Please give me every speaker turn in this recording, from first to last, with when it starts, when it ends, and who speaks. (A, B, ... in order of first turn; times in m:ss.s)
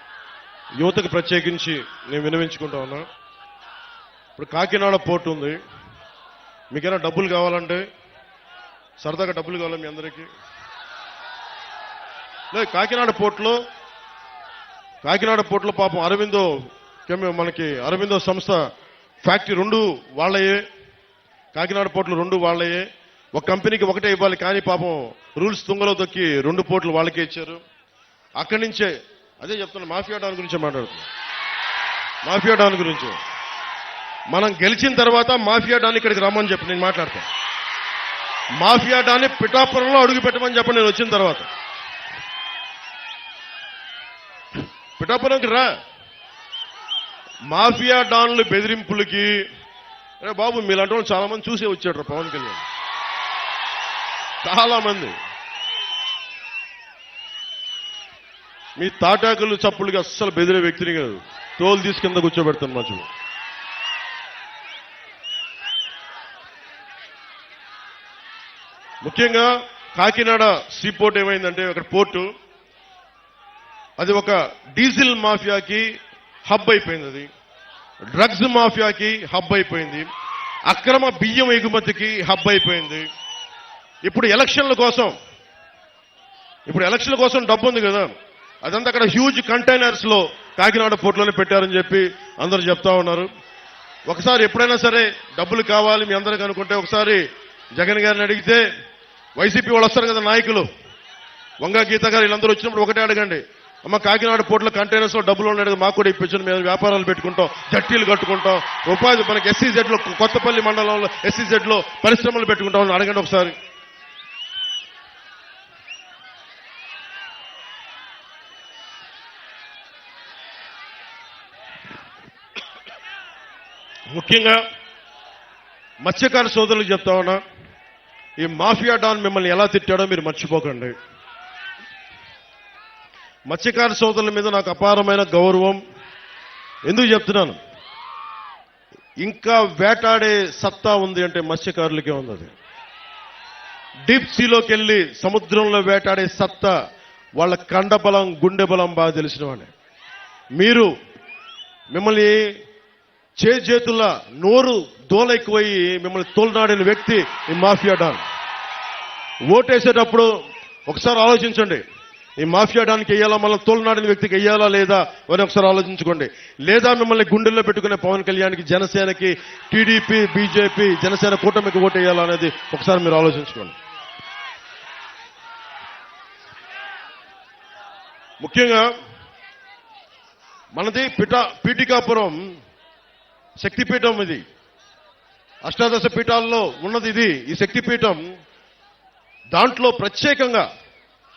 0:00.8-0:03.1 A
0:04.4-0:05.6 A
0:06.7-0:07.8 A
0:09.0-0:10.3 A
0:12.5-0:13.6 A
0:15.0-0:18.7 A
0:19.2-0:20.6 A
0:21.5-0:27.6 A
0:28.4-0:31.1 A
0:32.2-0:33.2 A
0:34.3-0:37.3 A
0:38.6-0:41.5 A
0:45.0-0:45.7 A
0:47.5-0:49.4 A
0:50.2-0:52.7 A
0:54.4-0:55.2 A
0:58.8-1:03.1 A
1:09.0-1:12.3 A
1:14.0-1:15.9 A
1:16.5-1:17.3 A
1:18.1-1:20.1 A
1:20.7-1:23.1 A
1:24.0-1:25.2 A
1:26.7-1:33.3 A
1:34.1-1:37.2 A
1:37.8-1:38.6 A
1:39.4-1:40.7 A
1:41.6-1:53.6 A
2:04.1-2:04.6 A
2:06.0-2:07.4 A
2:08.4-2:10.9 A
2:13.5-2:15.8 A
2:16.9-2:17.6 A
2:19.2-2:22.5 A
2:24.1-2:26.8 A
2:27.4-2:29.7 A
2:30.6-2:30.9 A
2:31.9-2:32.4 A
2:33.4-2:38.2 A
2:39.5-2:40.3 A
2:40.9-2:41.8 A
2:42.4-2:53.8 A
2:58.4-2:58.9 A
3:00.8-3:02.5 A
3:03.6-3:04.4 A
3:05.6-3:08.3 A
3:09.5-3:10.7 A